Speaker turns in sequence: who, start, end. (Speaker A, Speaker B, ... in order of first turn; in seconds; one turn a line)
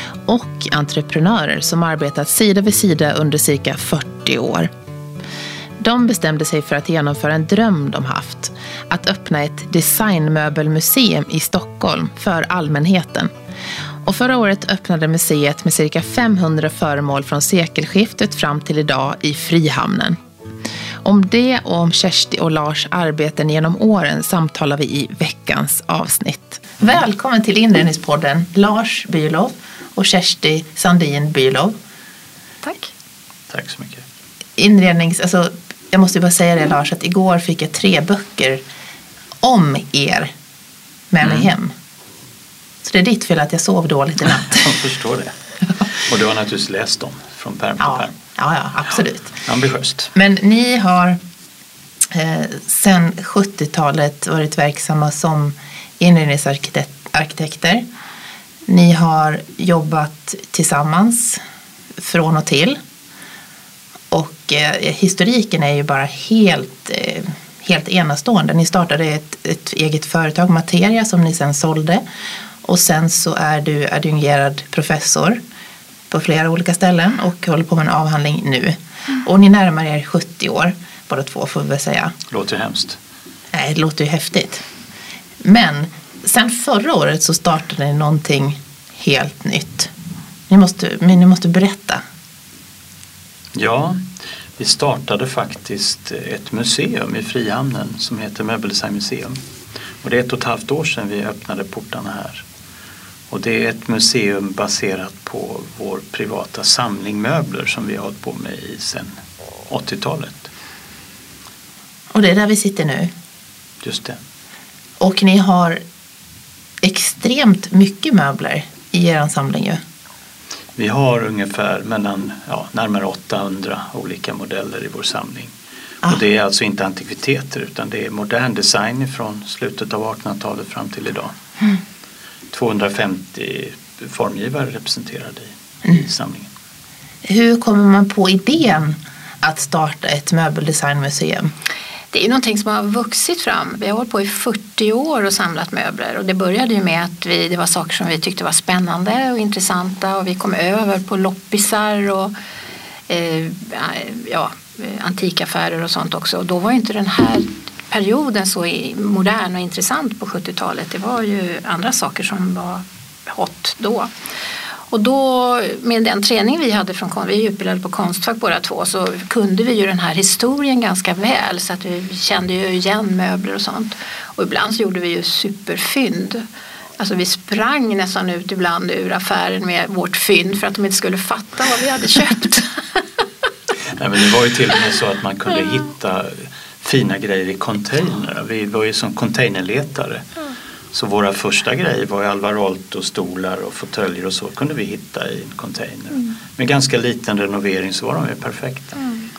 Speaker A: 0.2-4.7
Speaker A: 5.8-13.3
Speaker A: 14.0-20.2
Speaker A: 21.0-31.7
Speaker B: 32.6-32.9
Speaker C: 33.5-34.0
Speaker A: 34.6-38.6
Speaker A: 39.4-40.3
Speaker A: 41.1-41.7
Speaker C: 41.2-41.5
Speaker A: 42.8-44.7
Speaker C: 44.4-45.3
Speaker C: 46.0-48.1
Speaker A: 47.8-49.4
Speaker C: 49.5-50.1
Speaker A: 50.1-51.2
Speaker A: 52.1-57.8
Speaker A: 58.7-61.4
Speaker A: 62.0-62.8
Speaker A: 64.1-72.0
Speaker A: 72.6-75.4
Speaker A: 76.1-82.1
Speaker C: 82.3-83.0
Speaker A: 83.5-84.6
Speaker A: 85.4-89.9
Speaker A: 90.5-92.0
Speaker C: 93.5-94.0
Speaker C: 94.6-99.4
Speaker C: 100.0-102.4
Speaker C: 103.3-109.1
Speaker C: 109.7-110.5
Speaker A: 112.1-113.1
Speaker C: 113.8-114.2
Speaker A: 115.0-115.8
Speaker A: 116.8-119.8
Speaker C: 120.8-125.5
Speaker C: 126.0-131.3
Speaker C: 132.5-136.5
Speaker A: 137.2-141.5
Speaker B: 142.1-152.3
Speaker B: 153.1-164.1
Speaker B: 164.9-176.4
Speaker B: 177.0-183.0
Speaker C: 183.9-190.2
Speaker C: 190.9-199.0